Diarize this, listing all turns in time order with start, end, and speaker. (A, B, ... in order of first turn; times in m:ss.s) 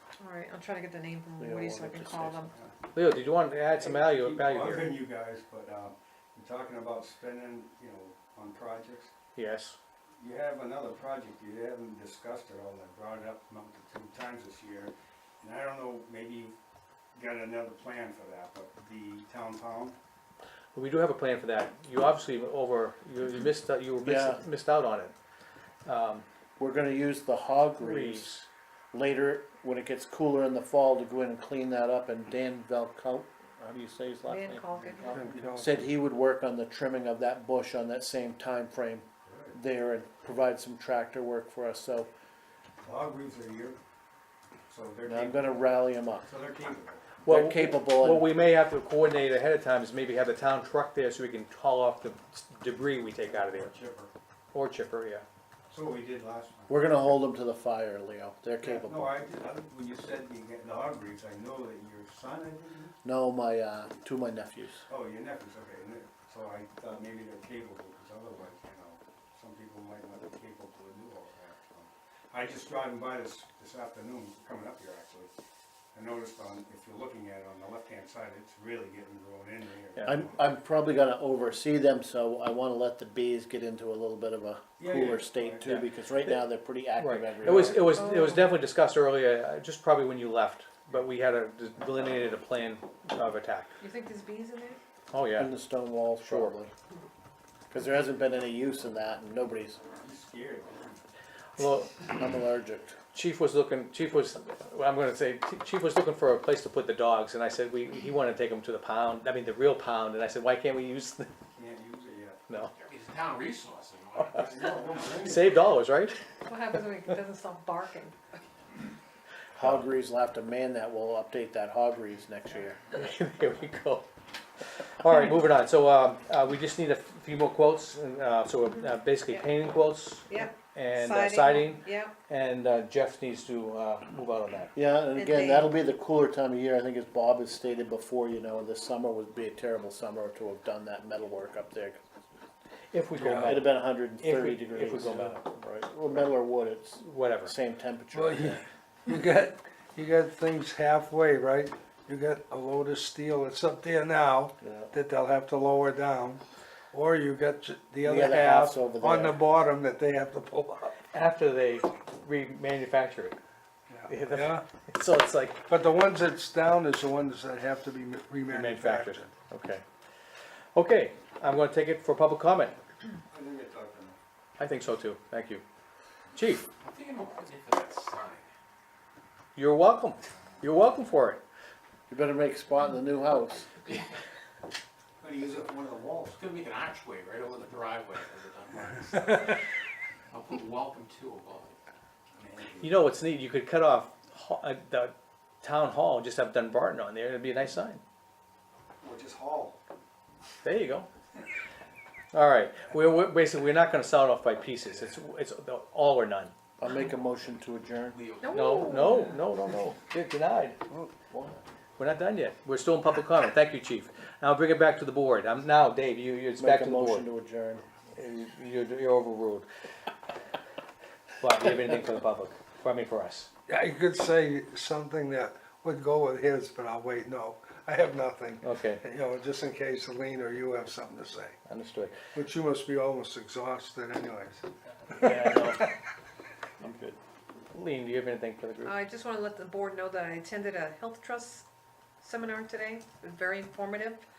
0:00.2-0:02.5 A
0:01.4-0:02.5 B
0:02.9-0:05.0 C
0:03.8-0:09.1 D
0:09.3-0:09.8 C
0:10.2-0:16.5 D
0:17.1-0:20.0 D
0:20.7-0:25.1 C
0:24.0-0:24.4 B
0:25.8-0:26.2 C
0:26.6-0:42.1 B
0:27.8-0:28.4 C
0:34.2-0:35.2 A
0:35.0-0:35.8 E
0:39.2-0:39.6 D
0:42.8-0:43.8 D
0:44.7-0:45.6 D
0:45.0-0:46.3 B
0:46.2-0:47.0 D
0:47.2-0:53.7 C
0:47.2-0:48.3 B
0:53.3-0:54.1 D
0:54.5-0:55.2 C
0:55.7-0:57.0 D
0:56.7-0:59.2 B
0:58.6-1:02.9 D
1:03.0-1:04.8 B
1:04.9-1:15.3 D
1:15.9-1:20.3 D
1:20.0-1:28.0 B
1:24.8-1:25.6 D
1:25.6-1:26.4 C
1:27.0-1:33.7 C
1:28.0-1:28.4 A
1:33.8-1:34.8 A
1:35.1-1:35.5 C
1:35.4-1:36.7 B
1:36.2-1:36.5 C
1:37.7-1:39.8 B
1:40.0-1:41.0 D
1:41.6-1:42.0 C
1:42.2-1:43.0 B
1:43.1-1:51.3 C
1:51.6-1:52.4 D
1:52.5-1:52.7 C
1:52.8-1:54.9 F
1:54.3-1:55.4 D
1:55.1-1:56.2 C
1:56.4-1:58.2 A
1:59.5-2:02.8 B
2:02.9-2:04.1 C
2:04.8-2:14.7 C
2:10.3-2:12.2 A
2:14.7-2:22.0 B
2:15.1-2:15.7 A
2:22.9-2:25.4 C
2:23.2-2:23.6 E
2:23.3-2:28.6 B
2:27.0-2:27.5 C
2:28.1-2:36.4 E
2:34.6-2:34.9 B
2:36.9-2:40.9 E
2:38.0-2:39.4 B
2:40.9-2:43.4 C
2:43.9-2:44.6 E
2:44.1-2:45.6 C
2:45.7-2:49.3 E
2:48.5-2:49.8 C
2:50.7-2:52.8 C
2:53.3-2:54.2 D
2:54.6-2:55.6 C
2:56.3-2:56.6 C
2:56.8-2:58.5 F
2:59.6-3:01.4 C
3:02.1-3:03.7 B
3:05.2-3:06.4 D
3:06.3-3:09.6 F
3:10.3-3:11.8 F
3:12.4-3:12.9 D
3:12.8-3:18.0 C
3:19.0-3:19.8 D
3:20.6-3:21.1 C
3:22.3-3:26.5 C
3:26.8-3:28.2 B
3:28.1-3:29.3 F
3:28.4-3:29.2 A
3:28.5-3:30.8 C
3:31.3-3:31.6 B
3:32.0-3:37.2 C
3:36.6-3:37.8 B
3:38.1-3:39.7 C
3:41.4-3:43.5 C
3:43.7-3:51.6 E
3:48.6-3:49.0 C
3:51.7-3:52.1 C
3:52.3-3:54.6 E
3:55.1-3:55.9 C
3:55.2-3:55.5 E
3:56.8-3:57.1 C
3:57.7-3:58.9 C
3:58.8-4:01.6 A
4:02.2-4:04.2 A